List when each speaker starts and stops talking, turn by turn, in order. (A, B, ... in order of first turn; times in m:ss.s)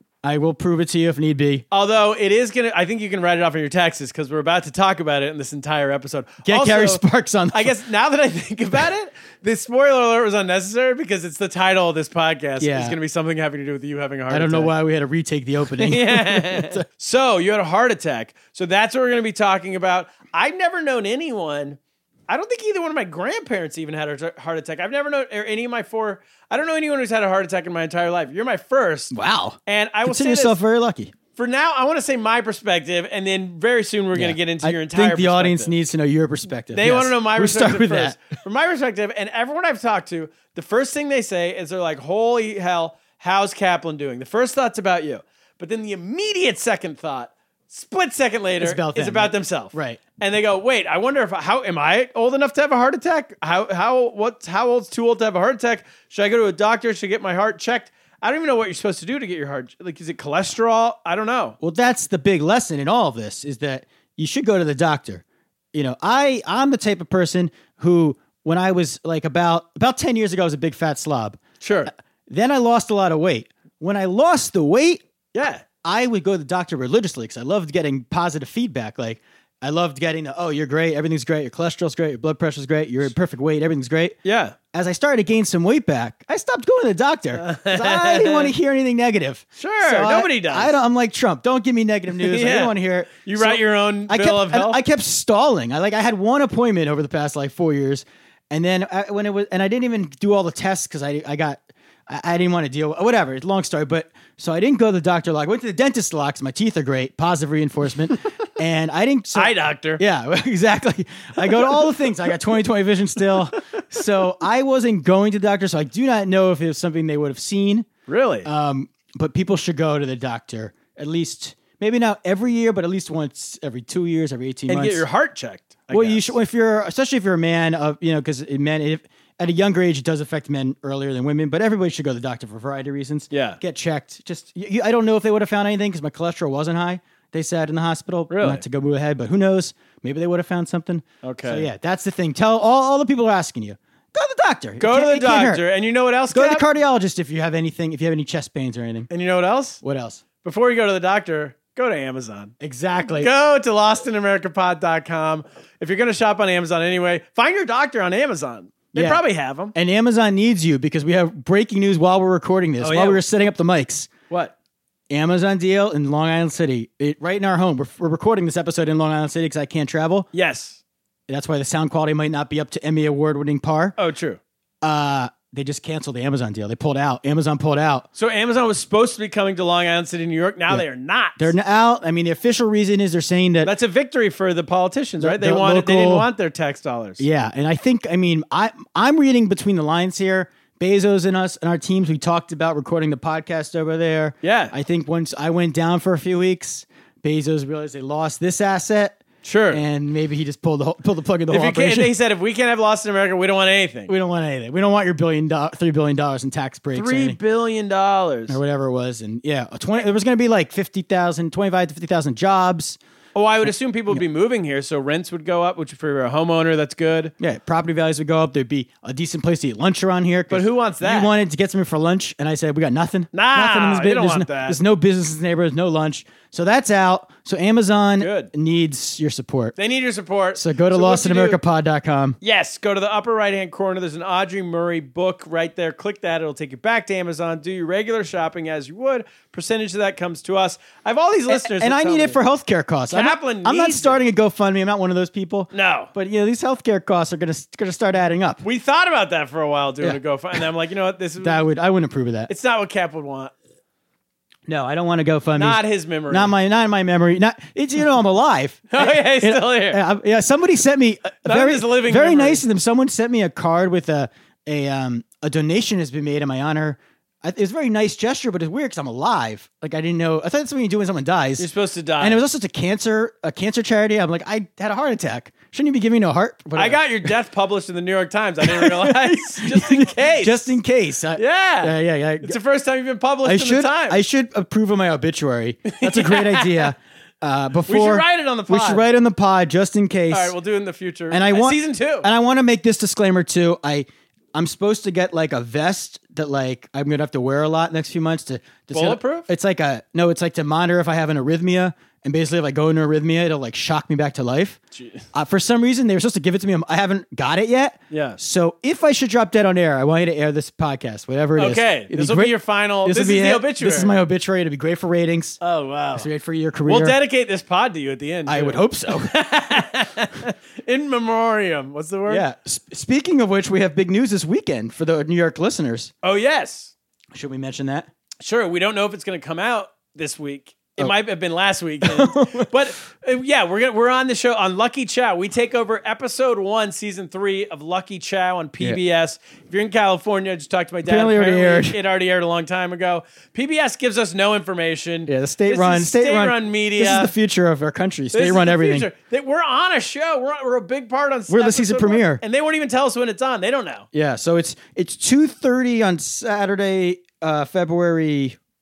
0:00.2-0:01.6 A
0:01.7-0:14.7 B
0:06.4-0:07.7 A
0:12.6-0:13.0 A
0:14.3-0:16.8 A
0:15.7-0:29.1 B
0:29.1-0:31.1 A
0:29.6-0:30.6 B
0:31.4-0:35.8 B
0:34.1-0:38.2 A
0:36.7-1:01.6 B
0:48.6-0:50.0 A
1:01.6-1:11.4 A
1:11.6-1:11.9 B
1:12.3-1:15.0 A
1:15.3-1:15.6 B
1:15.8-1:24.2 A
1:24.2-1:24.6 B
1:24.7-1:57.9 A
1:27.3-1:28.5 B
1:29.6-1:30.8 B
1:32.1-1:34.8 B
1:49.3-1:50.0 B
1:58.1-1:58.5 B
1:58.4-2:05.0 A
2:04.7-2:06.4 B
2:05.9-2:25.6 A
2:13.3-2:13.6 B
2:18.3-2:18.6 B
2:21.2-2:21.7 B
2:24.8-2:26.7 B
2:26.3-2:29.1 A
2:29.1-2:29.8 B
2:29.8-2:30.2 A
2:30.4-2:32.5 B
2:32.6-2:33.3 A
2:33.1-2:39.7 B
2:38.9-2:44.1 A
2:42.8-2:43.2 B
2:45.1-2:50.3 A
2:50.3-2:50.8 B
2:51.3-2:54.0 A
2:54.0-2:54.4 B
2:54.8-2:58.1 A
2:58.2-3:01.5 B
3:01.4-3:03.7 A
3:03.6-3:07.2 B
3:05.2-3:06.3 A
3:07.2-3:19.2 A
3:14.4-3:14.7 B
3:19.4-3:19.8 B
3:19.7-3:22.1 A
3:21.5-3:24.1 B
3:24.1-3:27.4 A
3:26.9-3:28.6 B
3:28.5-3:33.0 A
3:33.3-3:37.3 B
3:33.6-3:34.2 A
3:37.4-3:49.8 A
3:40.5-3:41.3 B
3:43.3-3:44.8 B
3:48.2-3:48.5 B
3:49.8-3:51.6 B
3:50.5-3:52.4 A
3:52.4-4:02.4 B
4:01.5-4:08.6 A
4:03.1-4:04.2 B
4:05.7-4:06.1 B
4:08.6-4:11.6 B
4:11.4-4:12.5 A
4:12.5-4:13.5 B
4:14.7-4:37.3 A
4:15.5-4:16.5 B
4:18.9-4:20.0 B
4:21.4-4:22.6 B
4:31.6-4:32.4 B
4:36.7-4:40.8 B
4:38.6-4:42.6 A
4:41.4-4:44.2 B
4:43.4-4:50.6 A
4:45.8-4:46.9 B
4:47.8-4:49.0 B
4:50.3-4:52.3 B
4:51.3-5:04.8 A
4:58.9-4:59.5 B
5:04.9-5:05.2 B
5:05.3-5:15.6 A
5:08.1-5:08.4 B
5:11.6-5:14.1 B
5:15.6-5:16.3 B
5:16.1-5:17.2 A
5:16.9-5:22.4 B
5:18.4-5:19.4 A
5:22.3-5:26.1 A
5:26.2-5:26.9 B
5:27.3-5:28.1 A
5:28.4-5:47.3 B
5:32.0-5:32.7 A
5:41.0-5:42.0 A
5:45.3-5:49.1 A
5:48.3-5:54.1 B
5:51.5-5:52.4 A
5:54.1-5:58.6 A